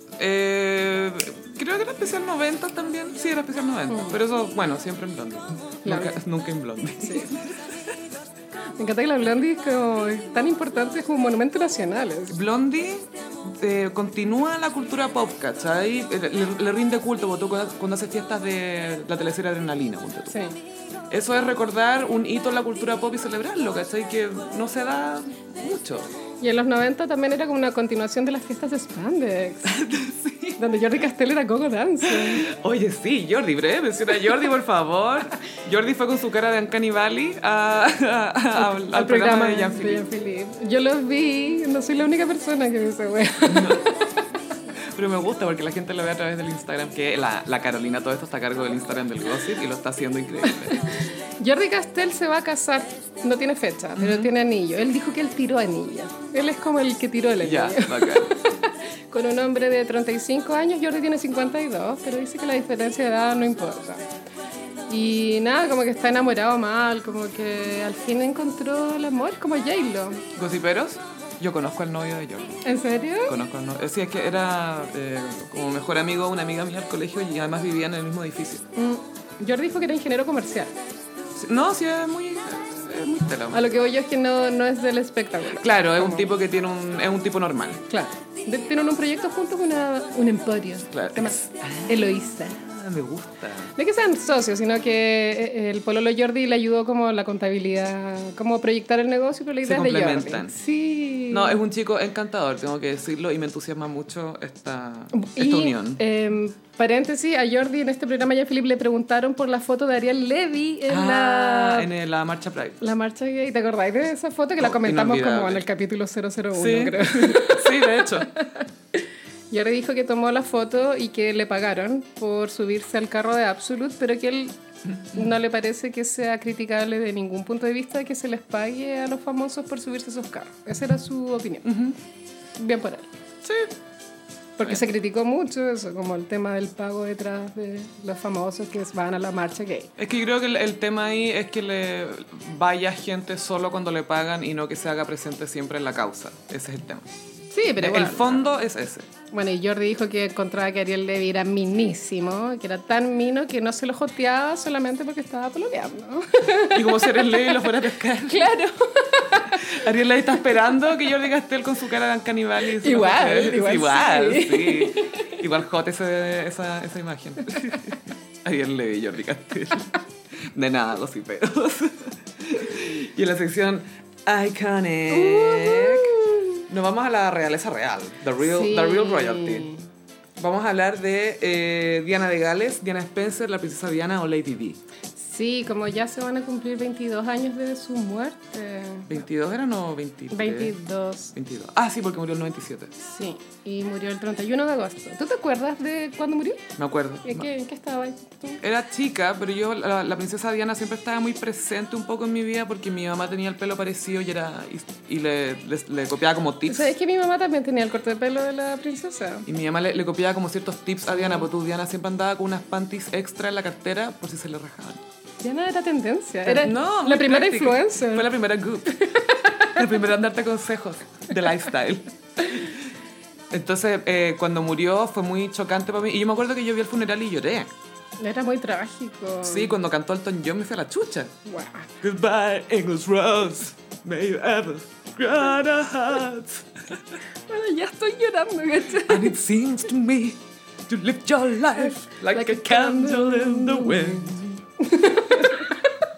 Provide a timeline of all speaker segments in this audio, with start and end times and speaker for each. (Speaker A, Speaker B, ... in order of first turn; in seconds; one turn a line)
Speaker A: 0.2-7.7
Speaker B: 3.9-4.2
Speaker B: 5.8-6.2
Speaker B: 7.0-7.3
Speaker B: 8.8-12.4
Speaker A: 12.3-20.3
Speaker B: 20.3-20.6
Speaker A: 21.1-26.1
Speaker B: 26.4-29.8
Speaker A: 29.6-30.6
Speaker B: 30.6-32.5
Speaker A: 32.0-40.0
Speaker B: 38.5-44.2
Speaker A: 43.4-43.8
Speaker A: 44.9-50.8
Speaker B: 50.5-64.0
Speaker A: 54.0-54.3
Speaker A: 57.4-58.3
Speaker B: 64.9-70.2
Speaker A: 70.3-72.6
Speaker B: 72.6-73.4
Speaker A: 73.2-78.6
Speaker B: 78.7-80.7
Speaker A: 81.3-83.7
Speaker B: 83.5-86.3
Speaker A: 85.5-87.8
Speaker B: 87.9-92.6
Speaker A: 90.9-93.7
Speaker B: 93.8-101.6
Speaker A: 99.6-100.6
Speaker A: 101.3-106.0
Speaker B: 105.1-111.9
Speaker A: 110.9-112.8
Speaker B: 112.8-124.6
Speaker A: 114.6-115.6
Speaker A: 116.5-118.3
Speaker B: 125.1-131.7
Speaker A: 131.6-132.0
Speaker B: 132.6-133.1
Speaker A: 133.4-133.7
Speaker B: 134.6-139.9
Speaker A: 140.0-147.1
Speaker B: 147.5-148.5
Speaker A: 147.8-149.1
Speaker B: 149.3-159.8
Speaker A: 156.7-158.5
Speaker A: 159.5-179.7
Speaker B: 162.7-165.4
Speaker B: 175.1-176.6
Speaker B: 178.4-179.8
Speaker A: 180.4-184.8
Speaker B: 185.2-189.1
Speaker A: 189.1-190.8
Speaker B: 190.3-191.3
Speaker A: 191.3-192.9
Speaker B: 193.0-196.7
Speaker A: 196.8-197.5
Speaker B: 197.2-198.6
Speaker A: 198.6-206.9
Speaker B: 206.7-209.5
Speaker A: 209.4-215.0
Speaker B: 211.1-211.5
Speaker B: 215.4-218.3
Speaker A: 216.4-219.0
Speaker B: 218.9-219.8
Speaker A: 219.7-222.8
Speaker A: 223.5-227.7
Speaker B: 228.2-229.7
Speaker A: 229.4-231.3
Speaker B: 231.4-231.9
Speaker A: 232.0-237.2
Speaker B: 237.5-239.4
Speaker A: 239.1-244.4
Speaker B: 242.3-245.9